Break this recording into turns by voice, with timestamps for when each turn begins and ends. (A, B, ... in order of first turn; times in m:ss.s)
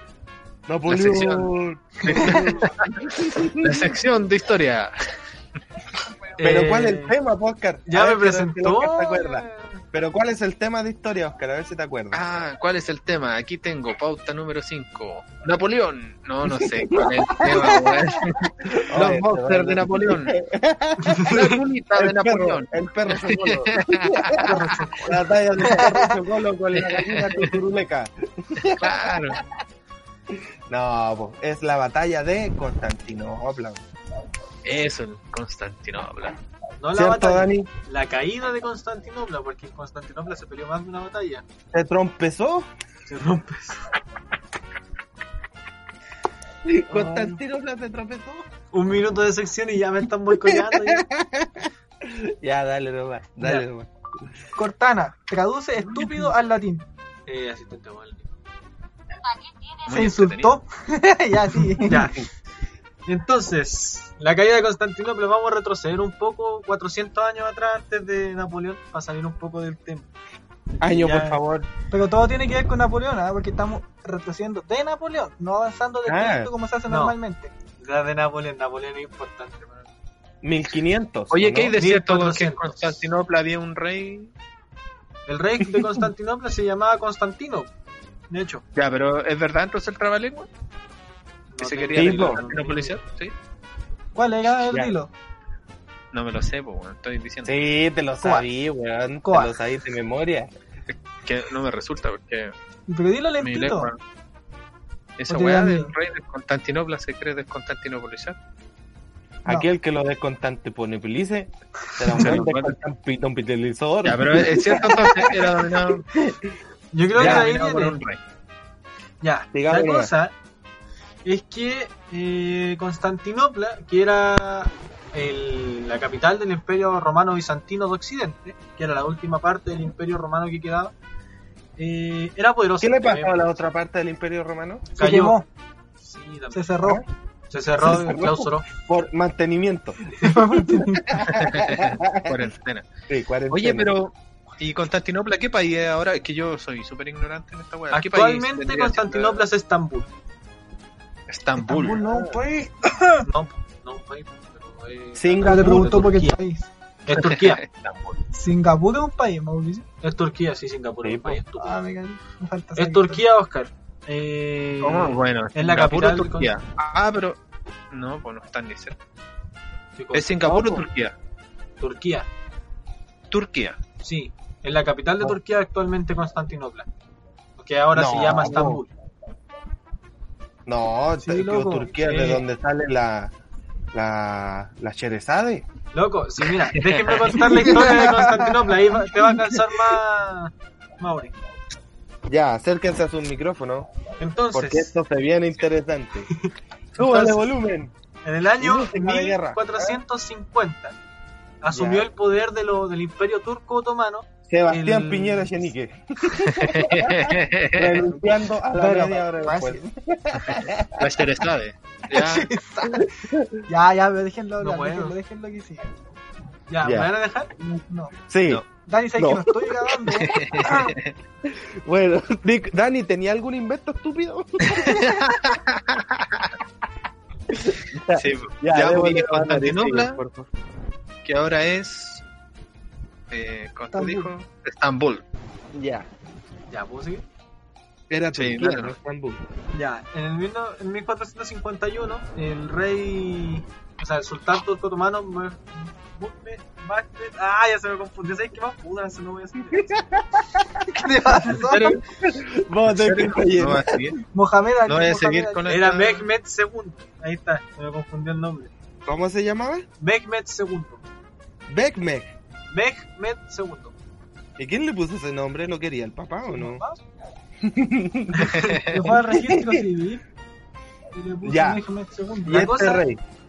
0:00.7-0:04.0 A
0:00.9-0:01.5 B
0:02.0-0:05.0 B
0:06.4-0:07.2 C
0:06.4-0:12.2 A
0:07.9-0:09.8 C
0:12.1-0:20.4 B
0:16.4-0:18.2 A
0:18.9-0:21.4 A
0:21.0-0:21.5 C
0:21.2-0:24.2 B
0:22.0-0:29.1 A
0:24.4-0:25.1 C
0:25.6-0:26.2 D
0:26.8-0:27.5 B
0:28.8-0:29.4 B
0:30.7-0:33.8 A
0:34.6-0:36.4 B
0:36.8-0:41.4 C
0:36.9-0:37.7 A
0:41.7-0:42.7 A
0:43.1-0:43.8 C
0:46.6-0:48.5 A
0:46.9-0:47.4 C
0:48.7-0:51.1 C
0:50.4-0:53.9 A
0:54.6-0:56.9 D
0:57.3-0:58.3 C
0:59.8-1:00.6 B
0:59.9-1:02.1 D
1:01.8-1:02.2 C
1:03.1-1:10.1 C
1:10.8-1:11.7 A
1:10.9-1:11.4 C
1:11.9-1:17.5 D
1:16.1-1:16.5 A
1:16.9-1:17.2 C
1:17.8-1:19.9 C
1:20.4-1:21.8 A
1:21.3-1:24.3 B
1:21.8-1:23.1 C
1:25.3-1:27.7 C
1:28.3-1:28.6 C
1:28.8-1:30.5 B
1:31.5-1:33.0 C
1:31.6-1:33.3 B
1:31.9-1:32.4 A
1:34.2-1:35.1 D
1:34.7-1:34.9 A
1:36.1-1:37.6 B
1:37.5-1:40.5 A
1:38.2-1:38.5 D
1:39.2-1:39.6 D
1:41.2-1:42.5 B
1:42.9-1:43.9 D
1:43.4-1:44.0 B
1:45.2-1:48.4 B
1:45.3-1:45.9 D
1:49.4-1:55.6 A
1:52.1-1:52.8 B
1:54.0-1:56.1 B
1:56.2-1:56.5 A
1:56.9-1:58.0 C
1:57.1-1:58.2 B
1:57.2-1:57.5 A
1:59.2-2:00.3 C
1:59.5-2:00.1 A
2:01.2-2:10.9 C
2:11.8-2:13.5 C
2:12.8-2:14.9 A
2:15.0-2:15.5 D
2:15.0-2:15.4 C
2:16.0-2:16.6 C
2:16.5-2:17.0 D
2:17.5-2:18.7 C
2:17.8-2:20.0 A
2:20.2-2:21.2 D
2:20.7-2:22.4 A
2:21.3-2:22.9 B
2:23.1-2:23.9 A
2:23.5-2:29.4 B
2:27.9-2:30.1 C
2:31.3-2:32.0 B
2:31.6-2:33.3 D
2:33.2-2:36.3 C
2:35.2-2:36.4 A
2:35.4-2:36.7 D
2:35.6-2:36.0 B
2:37.1-2:37.6 C
2:37.1-2:38.2 B
2:38.3-2:39.8 D
2:40.0-2:41.8 C
2:41.0-2:41.4 A
2:41.6-2:43.2 D
2:42.8-2:46.5 C
2:44.8-2:47.4 B
2:47.9-2:49.0 B
2:50.0-2:50.8 C
2:50.1-2:51.1 B
2:51.8-2:52.3 C
2:53.3-2:53.8 B
2:54.0-2:56.9 C
2:57.6-2:58.9 C
2:57.9-2:58.8 A
3:00.7-3:03.3 A
3:01.2-3:01.9 D
3:02.0-3:02.4 C
3:03.9-3:05.7 A
3:05.9-3:11.4 C
3:06.7-3:07.5 B
3:07.5-3:08.5 A
3:07.6-3:08.5 D
3:12.3-3:13.9 A
3:14.2-3:14.9 C
3:14.5-3:16.3 A
3:16.4-3:17.4 C
3:17.0-3:17.9 A
3:18.2-3:21.0 C
3:18.6-3:20.0 A
3:21.6-3:25.7 C
3:21.7-3:22.1 A
3:24.5-3:31.2 A
3:26.5-3:28.0 B
3:28.8-3:29.8 D
3:31.0-3:32.5 B
3:32.1-3:33.1 D
3:32.8-3:33.6 A
3:33.7-3:35.9 D
3:34.6-3:35.2 C
3:36.7-3:37.5 C
3:36.8-3:37.1 A
3:38.3-3:38.6 A
3:38.8-3:40.4 D
3:39.2-3:39.7 A
3:40.1-3:41.1 B
3:40.4-3:45.4 A
3:44.6-3:46.5 B
3:47.5-3:50.5 A
3:48.1-3:50.2 B
3:51.2-3:52.2 B
3:53.3-3:55.2 B
3:53.9-3:54.3 D
3:55.7-3:56.1 A
3:56.7-3:57.3 C
3:58.1-3:59.4 A
3:58.3-3:58.9 B
3:59.7-4:10.0 C
4:09.7-4:10.8 A
4:10.9-4:12.0 D
4:11.6-4:12.0 B
4:12.2-4:14.1 A
4:12.9-4:14.2 B
4:14.3-4:15.7 D
4:14.9-4:16.3 B
4:15.7-4:18.7 C
4:19.1-4:19.8 A
4:20.0-4:21.0 C
4:21.7-4:22.3 A
4:22.7-4:23.9 C
4:24.6-4:26.8 A
4:26.5-4:27.0 C
4:27.6-4:29.8 A
4:28.4-4:28.8 C
4:28.5-4:29.1 B
4:28.9-4:30.2 D
4:31.1-4:32.7 D
4:31.4-4:31.8 A
4:32.5-4:33.2 A
4:32.5-4:33.0 C